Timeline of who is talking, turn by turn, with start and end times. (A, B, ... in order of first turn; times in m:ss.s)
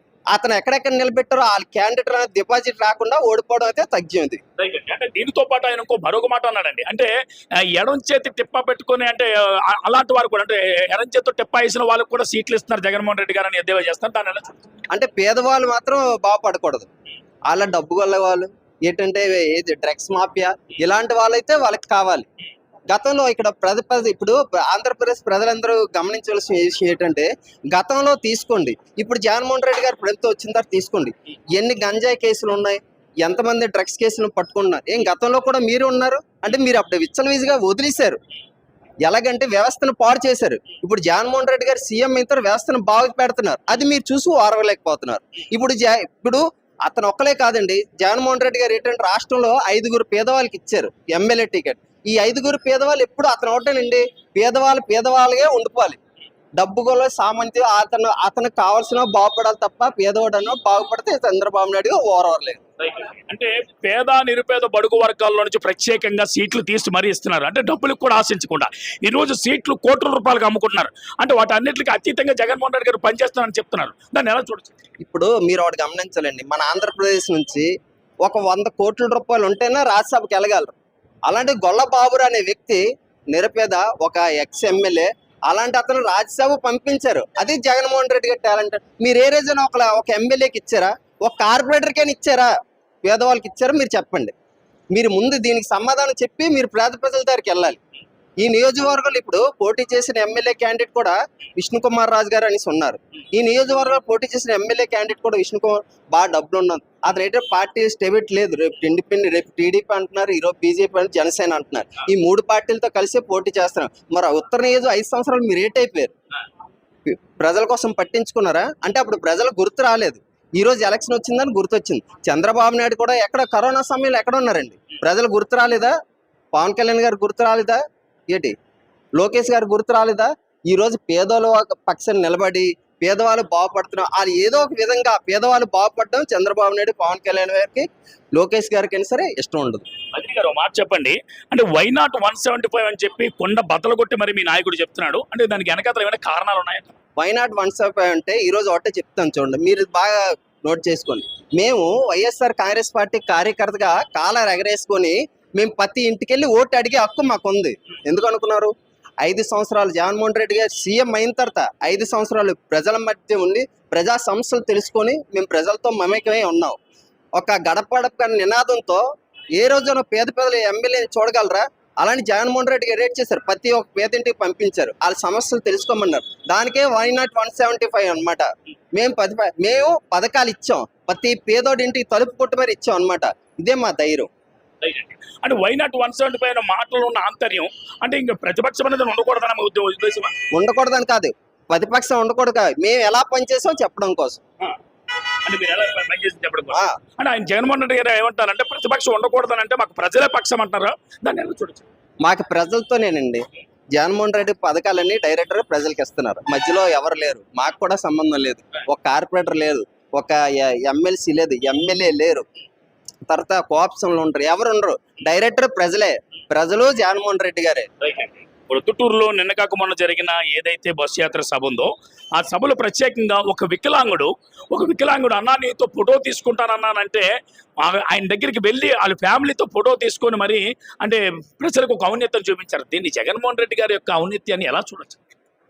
0:00.3-0:04.4 A
0:04.6-0:14.7 B
0:14.9-0:16.9 A
0:17.5-0:22.3 A
0:22.9-0:38.2 A
0:39.0-0:56.0 A
0:56.6-1:02.6 A
1:02.8-1:14.8 B
1:15.0-1:17.7 A
1:18.2-1:20.8 A
1:21.3-1:32.5 A
1:33.0-1:34.3 A
1:34.9-1:37.8 A
1:38.4-1:56.1 A
1:57.1-2:06.0 A
2:06.5-2:08.6 A
2:09.2-2:19.8 A
2:20.1-2:27.0 B
2:27.2-2:46.8 A
2:47.4-2:49.0 A
2:49.6-3:04.3 A
3:04.8-3:10.4 B
3:10.5-3:14.4 A
3:15.4-3:21.9 B
3:16.7-3:17.0 A
3:22.2-3:32.5 A
3:33.3-3:37.9 A
3:38.0-3:47.3 B
3:47.8-3:55.2 B